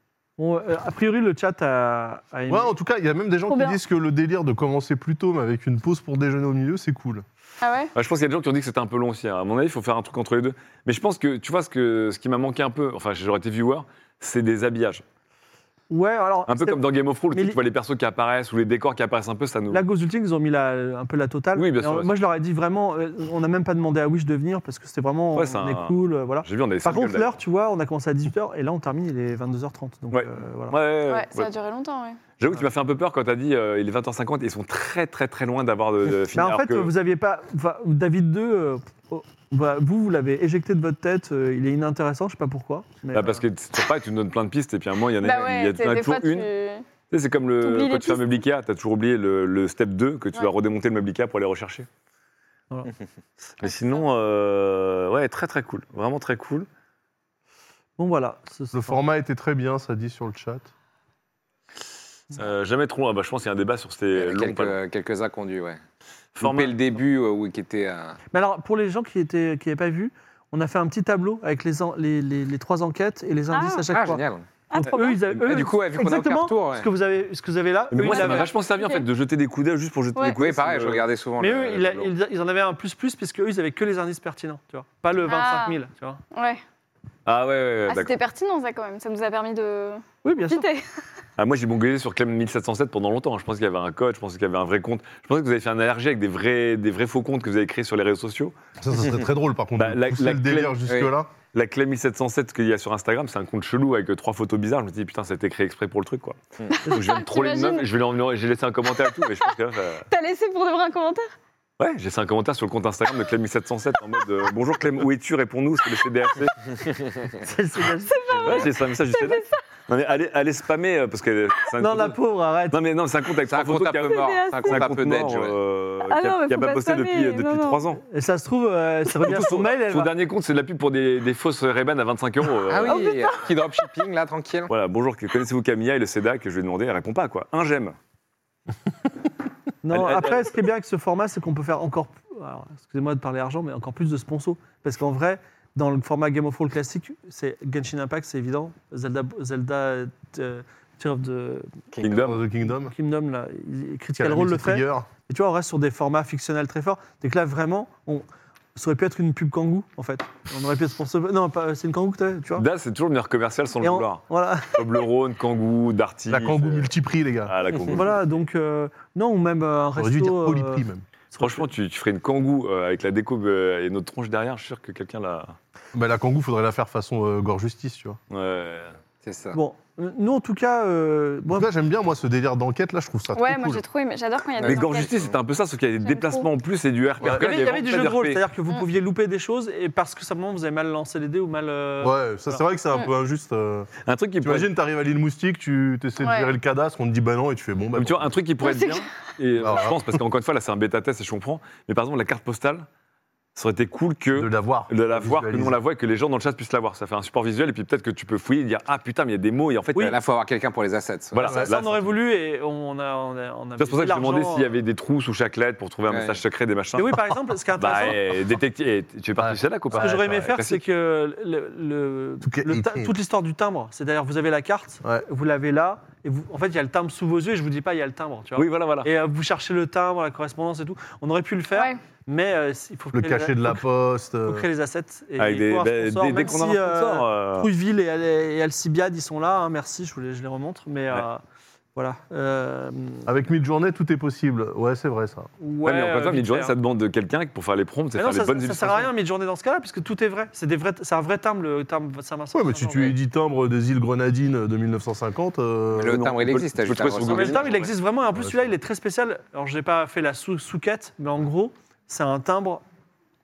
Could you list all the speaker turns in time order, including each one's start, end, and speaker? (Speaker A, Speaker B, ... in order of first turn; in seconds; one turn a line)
Speaker A: 0.4-2.7
Speaker B: 2.5-7.2
Speaker C: 3.5-3.8
Speaker C: 7.6-7.9
Speaker D: 7.9-15.0
Speaker A: 15.9-16.8
Speaker D: 16.5-19.8
Speaker A: 17.3-17.6
Speaker A: 19.7-30.8
Speaker D: 21.5-22.1
Speaker D: 25.3-27.4
Speaker D: 30.1-31.5
Speaker C: 31.1-32.2
Speaker D: 32.4-36.9
Speaker A: 36.3-43.4
Speaker D: 43.1-46.5
Speaker C: 45.2-46.8
Speaker D: 47.1-51.9
Speaker C: 47.6-48.4
Speaker D: 53.6-56.7
Speaker A: 58.0-59.0
Speaker B: 58.7-60.7
Speaker D: 62.3-64.8
Speaker E: 64.2-65.8
Speaker D: 66.3-66.8
Speaker E: 66.4-68.2
Speaker A: 68.3-78.5
Speaker C: 73.5-73.9
Speaker E: 73.9-76.9
Speaker C: 74.7-75.2
Speaker D: 77.9-81.1
Speaker C: 78.0-79.0
Speaker E: 80.3-82.1
Speaker A: 81.4-86.2
Speaker C: 85.2-85.8
Speaker C: 86.3-86.6
Speaker D: 87.2-88.1
Speaker C: 87.8-90.8
Speaker A: 90.2-90.7
Speaker D: 91.4-98.5
Speaker B: 98.8-101.3
Speaker D: 99.8-100.8
Speaker D: 101.5-106.3
Speaker C: 106.7-107.9
Speaker D: 106.9-110.0
Speaker C: 110.1-111.3
Speaker D: 111.8-116.9
Speaker A: 117.4-118.7
Speaker C: 118.1-119.6
Speaker D: 118.4-122.2
Speaker A: 121.8-122.8
Speaker D: 122.7-128.0
Speaker E: 123.4-125.5
Speaker C: 124.1-125.0
Speaker C: 126.0-127.8
Speaker A: 128.1-130.1
Speaker D: 129.2-133.1
Speaker E: 132.7-134.7
Speaker C: 132.8-133.5
Speaker D: 134.7-137.9
Speaker A: 139.8-151.7
Speaker D: 139.9-140.6
Speaker E: 151.9-152.2
Speaker D: 152.0-152.4
Speaker B: 152.0-152.9
Speaker A: 152.7-162.7
Speaker B: 154.2-155.1
Speaker D: 162.6-166.9
Speaker A: 163.8-165.0
Speaker B: 166.3-167.5
Speaker D: 167.5-168.3
Speaker A: 167.9-171.7
Speaker B: 169.9-171.0
Speaker D: 171.4-175.6
Speaker B: 175.9-178.2
Speaker D: 178.3-178.9
Speaker E: 179.2-179.6
Speaker A: 179.5-181.7
Speaker B: 181.5-183.8
Speaker C: 183.3-185.2
Speaker E: 184.6-185.3
Speaker D: 184.6-188.4
Speaker C: 186.0-186.5
Speaker B: 187.2-187.5
Speaker A: 187.2-192.6
Speaker B: 192.0-193.9
Speaker D: 194.0-194.7
Speaker B: 194.4-198.3
Speaker C: 196.2-196.5
Speaker D: 197.9-202.9
Speaker C: 198.6-199.1
Speaker B: 199.6-200.2
Speaker D: 203.6-210.2
Speaker B: 204.3-205.8
Speaker E: 210.0-211.6
Speaker D: 211.3-212.1
Speaker A: 211.5-214.7
Speaker D: 213.8-220.8
Speaker E: 216.1-216.4
Speaker A: 216.9-218.2
Speaker B: 219.4-220.1
Speaker A: 219.9-233.8
Speaker B: 222.4-223.1
Speaker D: 228.6-229.1
Speaker C: 231.7-232.0
Speaker B: 233.1-234.7
Speaker A: 234.4-241.4
Speaker D: 235.4-237.7
Speaker A: 241.9-243.3
Speaker B: 243.2-245.5
Speaker A: 245.6-246.8
Speaker D: 245.8-249.1
Speaker A: 248.1-253.2
Speaker B: 252.5-256.2
Speaker E: 255.9-257.7
Speaker D: 256.1-257.9
Speaker A: 257.2-262.8
Speaker B: 258.3-258.7